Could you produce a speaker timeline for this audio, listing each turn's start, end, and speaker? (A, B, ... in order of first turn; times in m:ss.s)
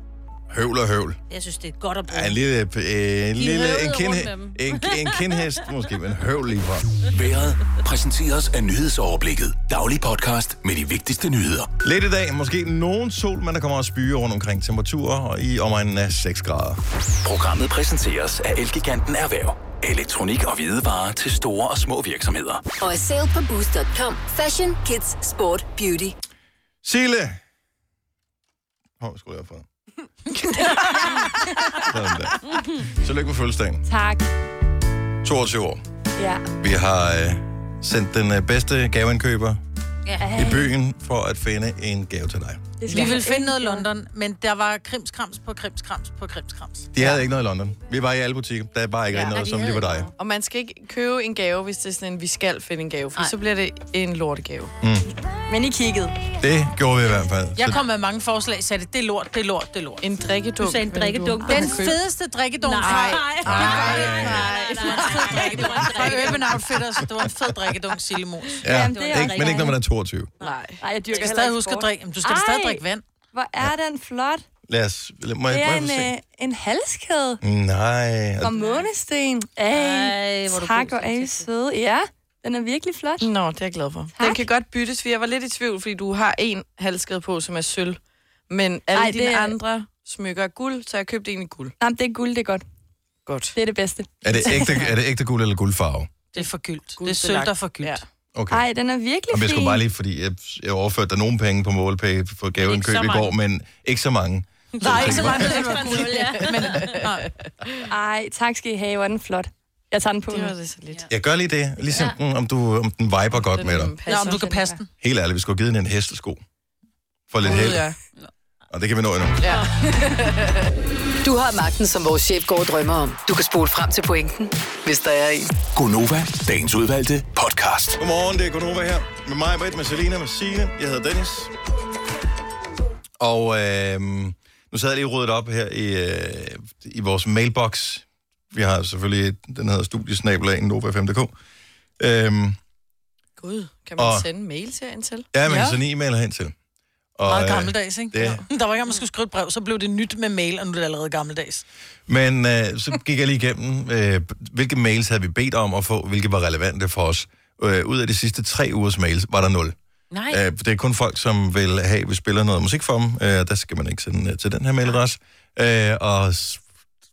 0:00.5-0:01.2 A
0:01.3-0:02.4 B
0:02.1-0:07.0 A
0:03.4-0:05.6 B
0:07.1-0:11.7 C
0:11.8-0:16.8 A
0:17.2-0:22.7 C
0:22.8-0:26.2 D
0:26.8-0:27.4 A
0:29.0-0:29.6 A
0:30.6-0:31.2 E
0:31.9-0:33.8 A
0:32.5-0:32.8 B
0:33.9-0:34.2 F
0:35.2-0:35.8 A
0:36.2-0:36.4 F
0:36.6-0:39.6 A
0:40.2-0:40.7 F
0:40.3-0:42.8 A
0:42.8-0:43.9 F
0:42.9-0:46.9 E
0:46.9-0:50.1 A
0:49.3-0:50.1 B
0:50.2-0:54.7 G
0:55.5-0:56.2 F
0:56.4-0:57.8 A
0:57.6-1:00.0 E
1:00.0-1:02.0 G
1:00.6-1:01.9 B
1:01.4-1:08.6 E
1:02.6-1:06.6 B
1:02.8-1:05.0 G
1:03.4-1:04.5 A
1:08.6-1:10.3 A
1:08.6-1:09.8 F
1:08.9-1:09.8 B
1:10.4-1:10.8 G
1:10.8-1:14.4 F
1:11.1-1:13.0 E
1:14.7-1:16.1 A
1:15.5-1:17.4 F
1:17.4-1:18.5 A
1:18.4-1:23.3 F
1:19.7-1:21.5 B
1:23.2-1:31.7 G
1:24.2-1:24.5 F
1:28.9-1:29.6 F
1:31.8-1:32.6 F
1:33.3-1:33.6 G
1:33.6-1:34.8 F
1:34.2-1:36.1 A
1:36.3-1:38.0 E
1:37.0-1:38.0 G
1:38.4-1:38.6 A
1:38.5-1:39.8 F
1:39.3-1:45.8 A
1:42.6-1:43.4 B
1:44.8-1:47.0 B
1:44.8-1:47.3 E
1:46.9-1:47.9 G
1:47.9-1:50.5 F
1:50.3-1:51.1 G
1:51.1-1:54.0 A
1:51.9-1:52.2 B
1:53.6-1:54.5 G
1:54.1-1:54.8 F
1:54.1-1:54.9 E
1:55.0-1:56.4 A
1:57.3-1:57.9 A
1:57.4-1:58.0 G
1:58.7-1:59.4 A
1:59.4-2:00.7 G
2:01.2-2:05.6 D
2:05.7-2:08.0 C
2:08.0-2:11.5 A
2:13.2-2:21.3 A
2:22.0-2:22.6 A
2:23.4-2:25.3 G
2:24.0-2:24.3 A
2:25.3-2:26.5 A
2:25.5-2:25.8 F
2:27.2-2:28.4 A
2:27.2-2:31.6 E
2:32.1-2:39.8 A
2:40.1-2:40.4 B
2:40.3-2:46.6 A